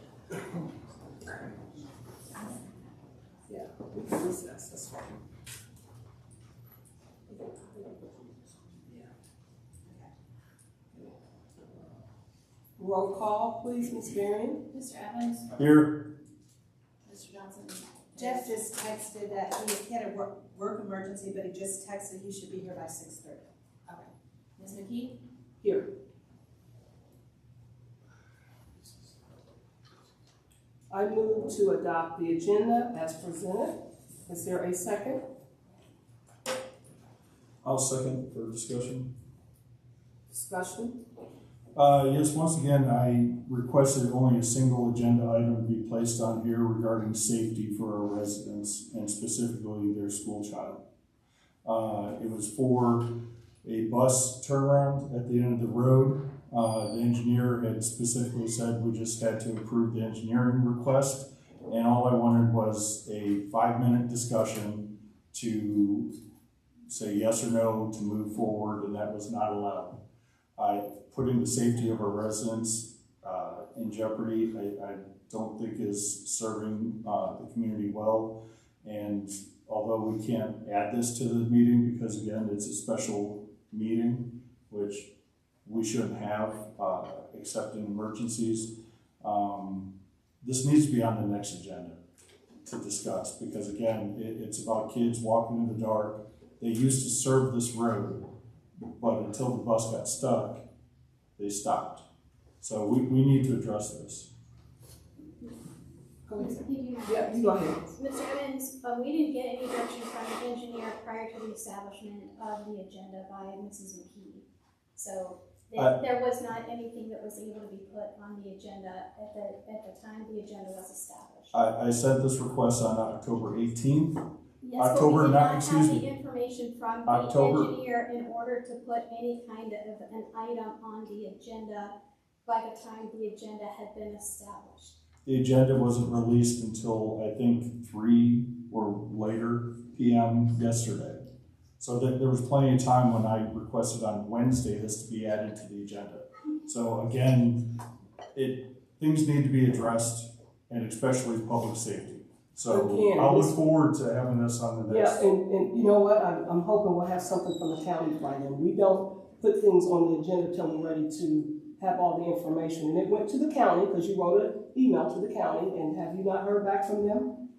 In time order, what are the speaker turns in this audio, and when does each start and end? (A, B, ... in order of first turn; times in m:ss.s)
0:03.5-0:05.2 A
0:12.8-0:14.6 A
0:14.7-0:15.5 B
0:15.5-0:16.1 C
0:17.0-0:18.5 B
0:18.1-0:24.1 D
0:24.6-0:25.2 B
0:25.6-0:25.9 A
0:30.9-0:35.2 A
0:37.6-0:39.1 C
0:40.3-0:41.0 A
0:41.7-0:50.8 C
0:51.6-0:53.1 C
0:53.6-1:06.1 C
1:06.9-1:10.0 C
1:10.6-1:25.1 C
1:25.6-1:29.9 C
1:30.4-1:32.0 C
1:32.6-1:38.2 C
1:38.8-1:40.6 C
1:41.4-1:42.0 C
1:42.6-1:44.3 C
1:46.3-1:47.9 A
1:46.3-2:01.6 E
2:01.5-2:04.2 C
2:04.6-2:11.9 E
2:04.8-2:06.1 C
2:07.0-2:07.7 C
2:12.4-2:14.9 E
2:15.2-2:21.2 C
2:21.8-2:27.6 C
2:28.3-2:35.2 C
2:32.6-2:33.6 A
2:34.9-2:47.3 A